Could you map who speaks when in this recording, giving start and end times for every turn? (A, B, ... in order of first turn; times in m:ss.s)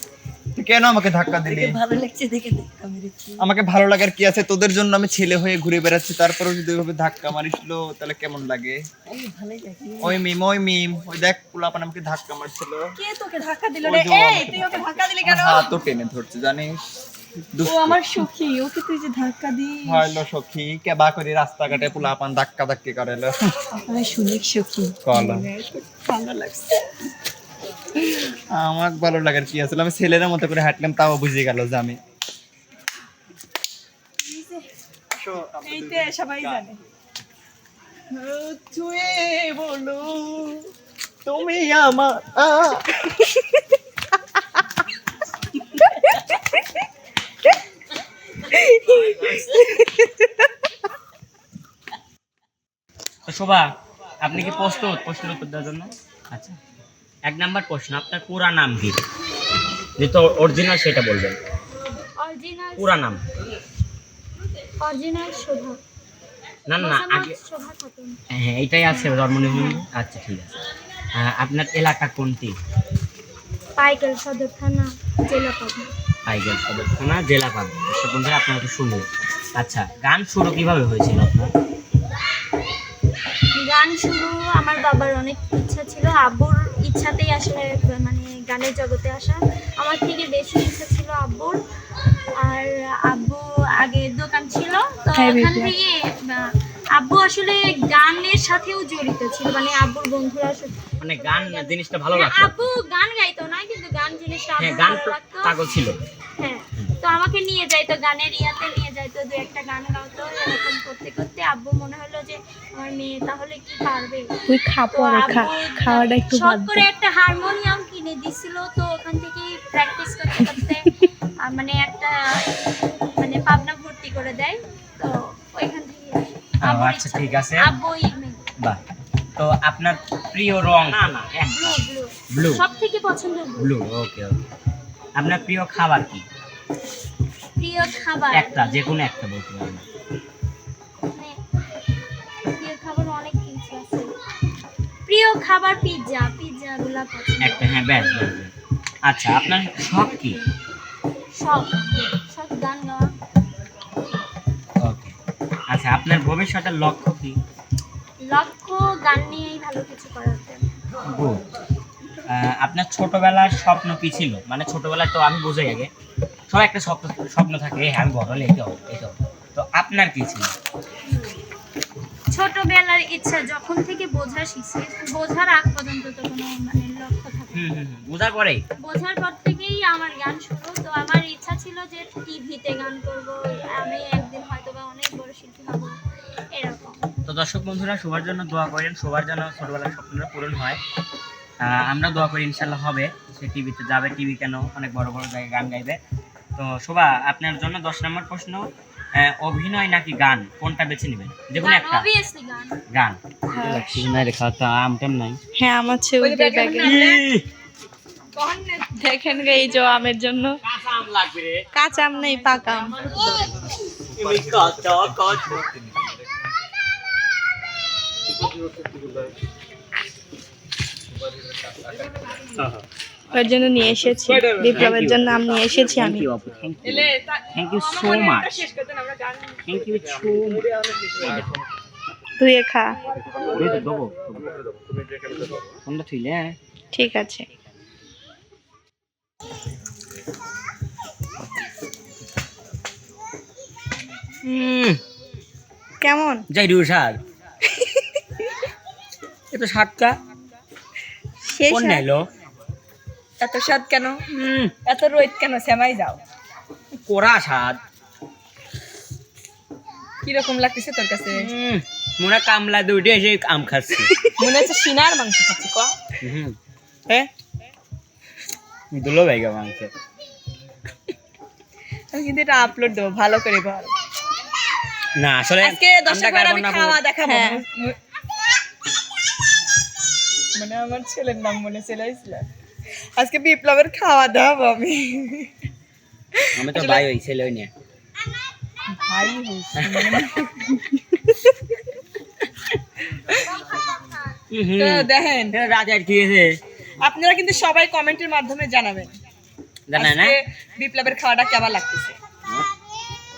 0:00.6-0:01.8 A
0:01.5-0:03.3 B
0:03.4-0:08.8 A
0:09.1-0:10.1 B
0:10.0-0:13.0 A
0:13.0-0:15.7 B
0:13.8-0:16.8 A
0:17.5-0:18.3 A
0:17.6-0:20.2 B
0:19.8-0:23.4 A
0:23.9-0:26.8 B
0:25.0-0:25.5 A
0:28.5-0:32.0 A
0:34.2-0:34.7 B
0:35.1-0:36.7 A
0:35.6-0:36.8 B
0:38.1-0:40.7 A
0:41.3-0:43.0 A
0:48.5-0:50.3 C
0:53.3-0:53.7 D
0:54.2-0:56.6 D
0:57.2-0:59.0 D
1:00.0-1:01.4 D
1:02.2-1:03.0 E
1:02.8-1:03.2 D
1:04.8-1:05.8 E
1:06.7-1:07.4 D
1:06.8-1:08.2 E
1:08.4-1:10.6 D
1:08.9-1:09.8 E
1:11.2-1:12.6 D
1:13.8-1:15.9 E
1:16.3-1:21.5 D
1:23.5-1:31.6 E
1:32.4-1:40.8 E
1:35.2-1:35.8 C
1:41.0-1:42.7 D
1:41.3-1:45.5 E
1:44.6-1:46.0 D
1:46.4-1:54.3 E
1:54.5-1:56.9 C
1:54.9-2:00.9 E
2:01.4-2:02.5 E
2:03.2-2:08.4 E
2:06.6-2:07.6 D
2:09.4-2:11.8 D
2:11.4-2:13.7 E
2:12.3-2:12.6 D
2:13.6-2:14.4 D
2:15.2-2:16.3 D
2:17.6-2:18.8 E
2:18.3-2:19.8 D
2:21.1-2:21.4 E
2:22.5-2:24.1 E
2:25.1-2:27.9 E
2:27.4-2:28.5 D
2:29.0-2:30.4 D
2:31.3-2:33.1 E
2:34.8-2:35.1 D
2:35.7-2:37.4 D
2:38.2-2:40.6 E
2:41.1-2:41.4 D
2:42.3-2:45.9 D
2:46.5-2:50.5 D
2:52.3-2:57.7 E
2:57.6-2:58.6 D
2:58.8-3:06.0 E
3:06.5-3:07.0 E
3:07.3-3:10.8 D
3:11.6-3:16.0 D
3:16.6-3:22.1 D
3:21.6-3:22.8 E
3:22.9-3:25.4 D
3:23.5-3:24.1 C
3:25.6-3:27.0 C
3:26.2-3:27.2 B
3:26.8-3:27.4 D
3:28.4-3:29.7 B
3:28.9-3:30.5 C
3:30.7-3:31.6 D
3:31.7-3:33.0 C
3:33.0-3:36.4 A
3:34.2-3:35.6 D
3:38.5-3:39.3 A
3:41.1-3:42.2 A
3:43.3-3:46.3 C
3:44.3-3:45.2 D
3:45.9-3:48.7 D
3:46.8-3:49.4 B
3:49.6-3:51.5 D
3:52.4-3:52.9 C
3:53.3-3:54.5 D
3:55.8-3:56.6 D
3:56.9-3:57.4 C
4:04.4-4:05.0 D
4:06.0-4:06.4 C
4:06.5-4:07.2 D
4:09.5-4:10.2 D
4:11.4-4:12.0 C
4:11.7-4:12.3 D
4:13.4-4:14.2 B
4:14.3-4:14.7 D
4:14.8-4:16.2 B
4:17.1-4:17.8 D
4:20.2-4:21.5 B
4:21.3-4:24.3 D
4:24.4-4:26.0 B
4:26.2-4:26.6 D
4:28.9-4:29.9 D
4:32.1-4:34.0 B
4:35.2-4:37.0 D
4:35.6-4:38.0 B
4:37.2-4:37.6 C
4:40.5-4:42.5 B
4:43.2-4:45.5 B
4:46.4-4:47.0 B
4:46.6-4:47.7 D
4:48.9-4:50.4 B
4:49.8-4:50.2 D
4:50.8-4:51.4 C
4:54.5-4:56.5 D
4:54.8-4:55.6 B
4:57.0-4:59.2 B
4:59.9-5:00.4 D
5:00.0-5:02.2 B